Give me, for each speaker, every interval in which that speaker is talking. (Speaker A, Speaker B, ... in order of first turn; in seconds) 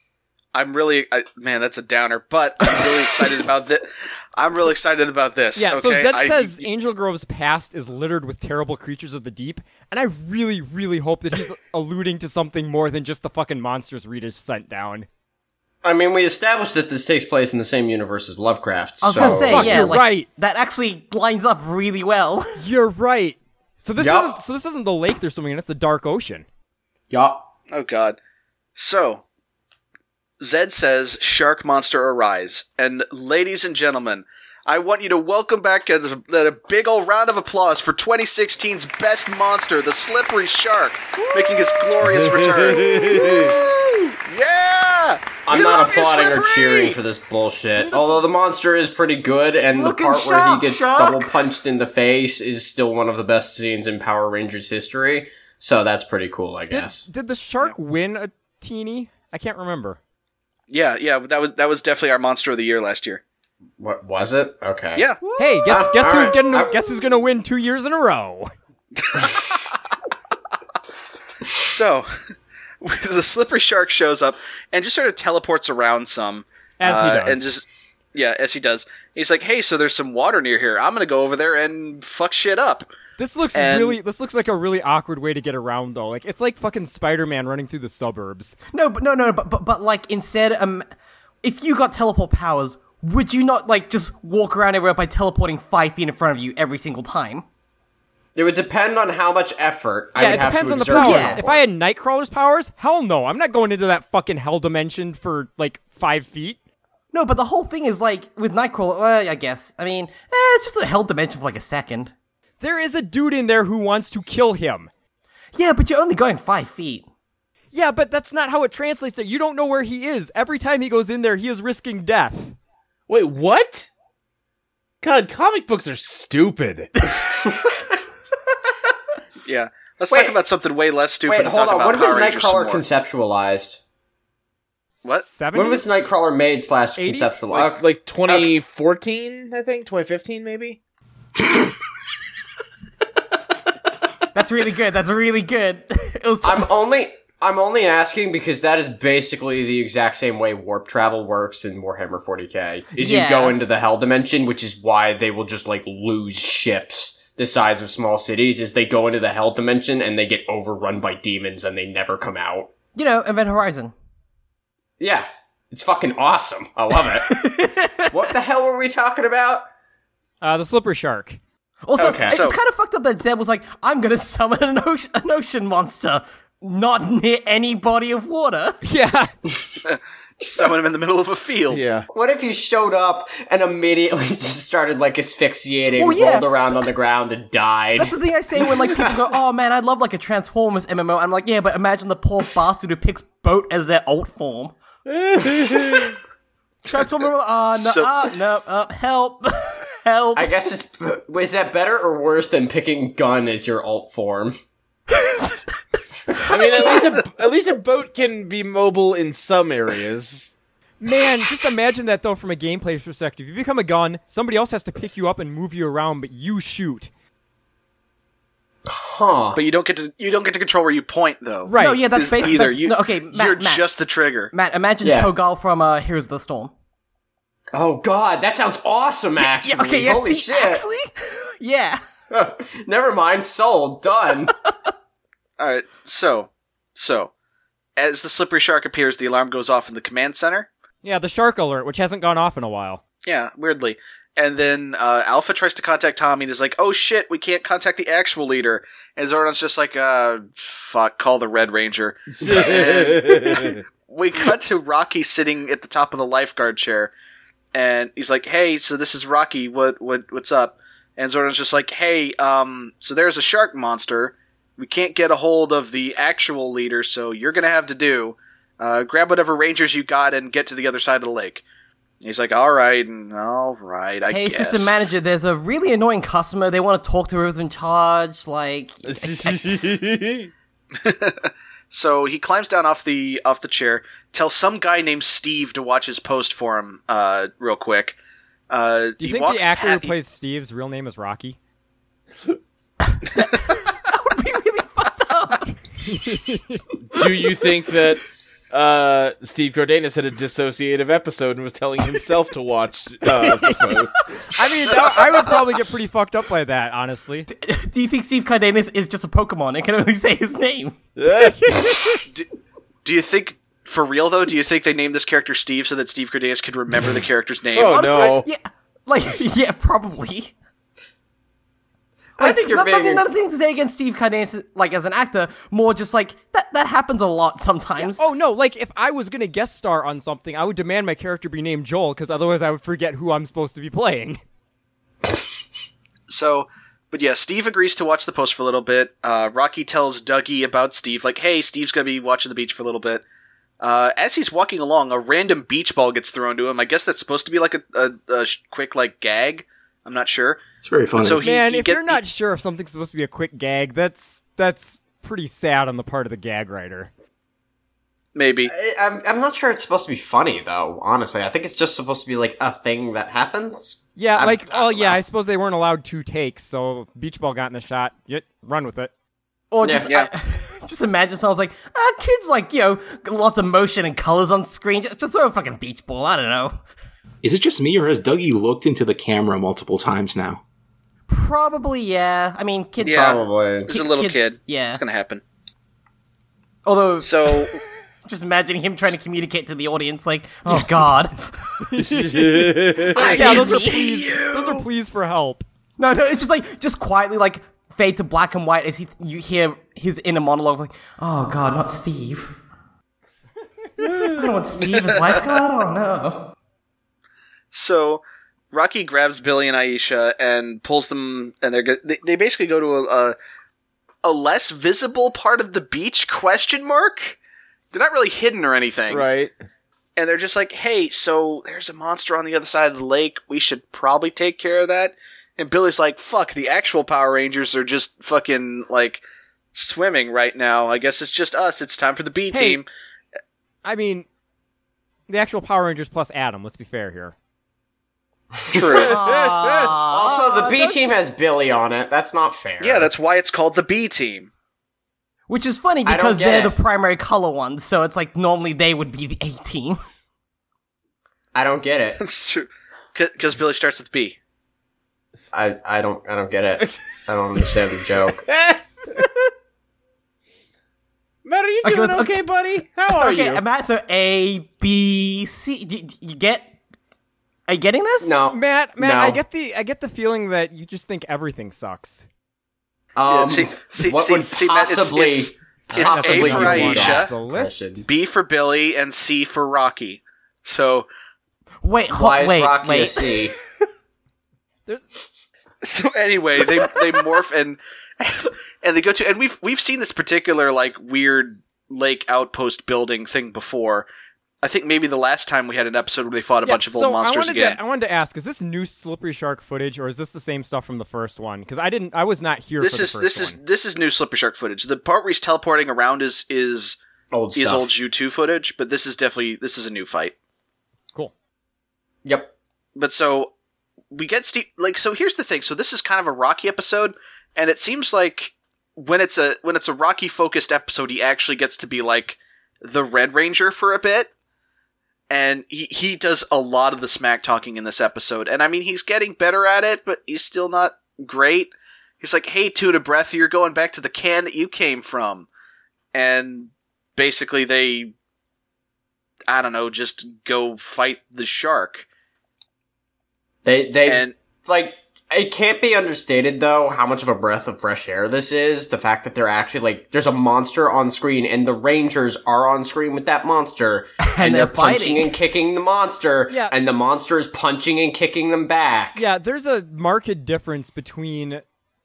Speaker A: 0.5-6.7, 27.7-28.2, 28.8-29.2, 30.4-47.0, 60.7-63.2, 69.0-69.3, 71.6-72.1, 72.8-82.9, 83.5-84.0, 129.4-132.8, 172.3-172.6, 179.8-181.8, 197.7-198.3, 219.6-224.5, 235.6-237.3, 238.0-240.7, 243.2-257.1, 257.7-271.6, 272.2-274.9, 281.0-288.2, 288.7-290.1, 313.0-318.4, 336.3-343.2, 343.8-350.6, 351.2-352.2, 358.3-358.7, 383.0-385.4, 387.2-387.7, 393.1-394.8, 404.8-405.6, 407.7-413.3, 414.2-417.4, 417.9-419.2, 420.1-429.2, 429.7-432.9, 438.7-439.1, 442.8-444.5, 452.2-454.4, 473.3-477.3, 478.1-481.1, 485.8-494.1, 494.6-497.8, 502.8-507.0, 507.5-510.3, 513.0-513.5, 514.1-524.3, 525.3-535.5, 536.1-538.1, 539.5-542.0, 544.0-544.3
Speaker B: 5.5-15.1, 19.1-20.3, 22.6-26.4, 47.8-48.3, 56.7-60.0, 65.4-68.5, 76.8-77.5, 83.2-88.6, 100.1-106.6, 112.6-114.9, 117.7-122.5, 135.1-135.9, 136.9-137.6, 170.4-171.4, 178.8-179.3, 211.0-217.1, 221.7-222.1, 241.0-243.0, 289.2-291.6, 296.1-296.8, 303.4-303.9, 304.5-307.5, 328.0-334.4, 351.4-357.1, 364.1-369.1, 391.8-395.6, 432.5-432.8, 433.8-434.2, 435.3-437.3, 468.5-472.2, 476.0-477.9, 496.6-503.6, 556.5-556.7, 559.1-561.6
Speaker C: 15.8-19.9, 24.0-24.3, 27.1-27.4, 45.5-57.0, 63.8-66.9, 98.3-101.6, 127.5-127.7, 130.1-130.3, 131.3-133.8, 135.5-138.5, 146.4-162.7, 165.0-167.6, 168.1-169.6, 172.0-172.4, 182.1-189.1, 200.3-204.6, 218.9-219.6, 225.0-225.3, 227.7-230.8, 232.3-234.5, 322.4-323.2, 358.7-365.2, 369.8-370.1, 383.0-383.9, 438.6-439.1, 440.1-443.1, 446.0-446.7, 451.5-452.2, 455.5-458.4, 468.2-469.4, 473.1-478.1, 482.1-483.5, 507.3-507.9, 512.2-512.5, 543.6-559.2
Speaker D: 19.0-22.6, 49.7-51.3, 88.7-90.8, 91.4-97.4, 100.9-101.4, 107.1-112.1, 115.5-117.0, 144.3-146.6, 152.9-153.5, 162.9-163.9, 167.1-168.2, 171.8-178.8, 185.9-186.5, 188.0-194.7, 196.8-200.5, 221.7-223.8, 224.5-226.7, 229.4-232.0, 274.3-279.6, 293.4-295.7, 307.6-310.9, 317.8-320.5, 322.4-328.2, 369.7-376.8, 381.3-383.3, 383.9-385.0, 386.8-391.5, 393.1-393.9, 396.0-402.5, 404.2-406.5, 438.9-440.9, 445.5-450.0, 461.8-462.5, 463.1-466.7, 467.7-468.4, 481.8-483.3, 554.2-555.3
Speaker E: 42.0-43.5, 123.1-123.9, 125.0-126.9, 137.5-140.8, 181.7-182.1, 195.1-196.1, 206.5-210.5, 252.4-253.8, 279.0-280.5, 297.1-304.4, 311.2-312.0, 317.7-318.5, 392.0-393.2, 419.1-419.5, 439.2-439.9, 458.4-459.3, 461.4-463.6
Speaker F: 350.8-351.4, 377.4-380.6